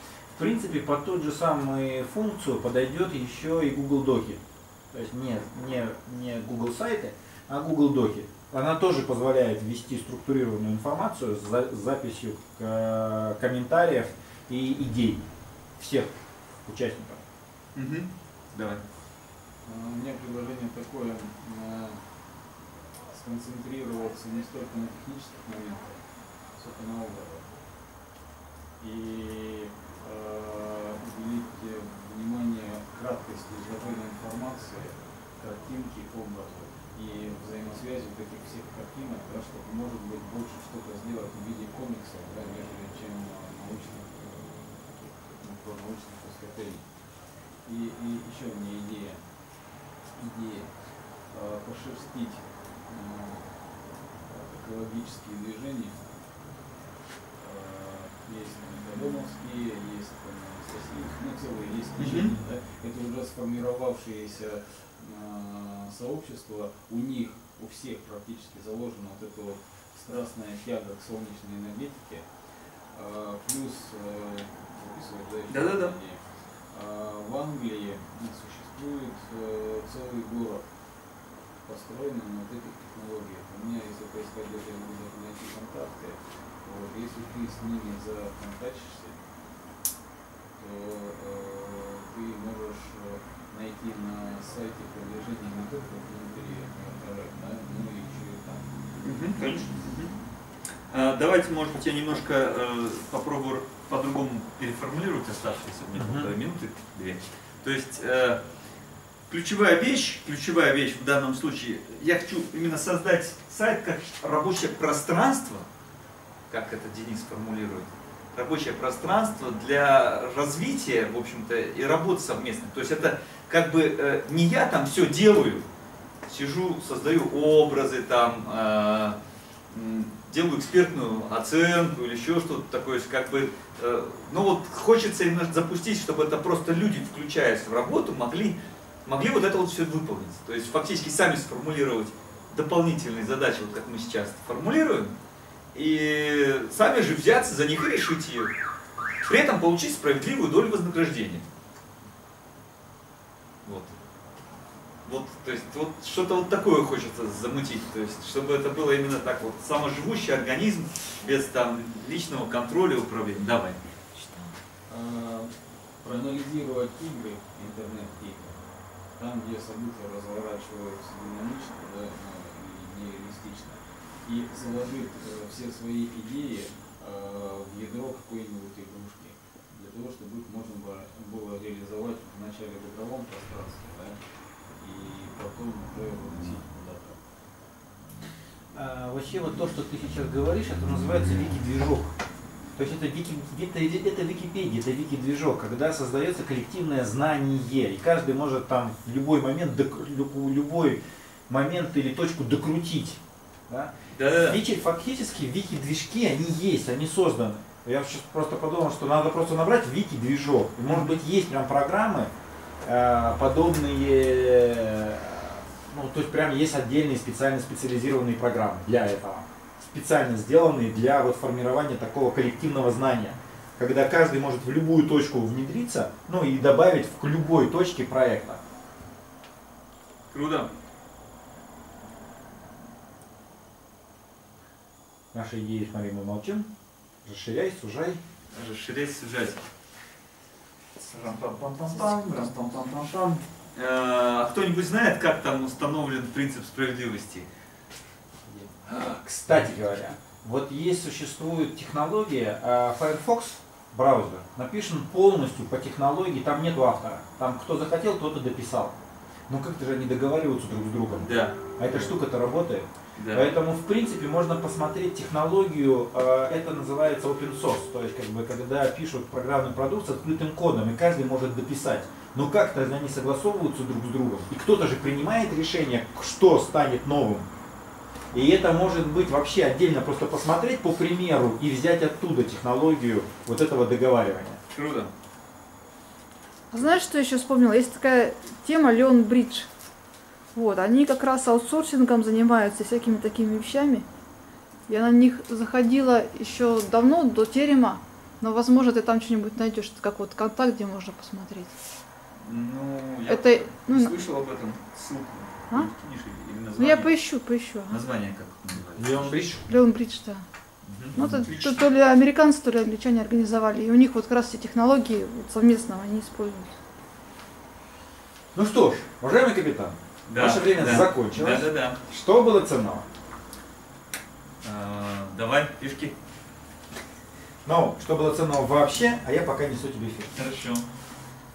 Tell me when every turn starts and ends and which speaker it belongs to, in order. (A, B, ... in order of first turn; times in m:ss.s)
0:00.4-0:04.4 A
0:04.9-0:15.2 A
0:15.8-0:16.2 A
0:16.7-0:17.2 A
0:17.8-0:18.8 B
0:19.6-0:22.0 C
0:23.1-0:26.0 C
0:26.6-0:27.5 C
0:28.8-0:46.9 C
0:47.6-0:49.2 C
0:50.2-0:50.7 C
0:51.3-0:53.5 C
0:54.3-0:56.0 C
0:57.4-1:12.3 C
1:02.0-1:02.3 B
1:12.9-1:20.7 C
1:15.5-1:16.0 B
1:21.6-1:29.2 C
1:30.6-1:38.7 C
1:39.0-1:40.1 B
1:40.9-1:48.4 B
1:46.0-1:46.3 A
1:49.3-1:55.7 B
1:56.5-2:05.7 B
2:06.3-2:09.2 B
2:09.7-2:25.2 B
2:25.7-2:28.5 B
2:29.2-2:31.4 B
2:33.6-2:33.9 B
2:35.0-2:44.5 B
2:44.9-2:45.5 C
2:46.0-2:48.6 C
2:49.2-3:04.2 C
3:04.8-3:07.2 C
3:08.7-3:12.2 A
3:12.8-3:32.3 A
3:24.1-3:24.6 B
3:30.9-3:31.2 B
3:32.8-3:48.6 A
3:50.3-3:50.7 B
3:55.3-3:56.7 A
3:57.2-3:58.2 A
3:58.5-3:59.6 B
4:01.0-4:07.5 B
4:08.5-4:08.7 C
4:08.9-4:19.0 A
4:19.5-4:37.5 A
4:21.2-4:22.0 B
4:23.2-4:23.6 B
4:38.3-4:44.6 A
4:44.7-4:45.1 B
4:46.7-4:49.7 D
4:50.6-4:54.0 D
4:54.9-5:01.7 D
5:02.4-5:07.2 B
5:03.3-5:04.2 D
5:06.8-5:08.0 D
5:07.9-5:09.4 B
5:09.0-5:09.6 A
5:09.5-5:10.4 D
5:10.8-5:11.9 B
5:11.2-5:16.7 D
5:18.5-5:23.1 A
5:20.3-5:22.0 B
5:24.6-5:26.2 B
5:27.6-5:30.3 A
5:30.4-5:30.9 B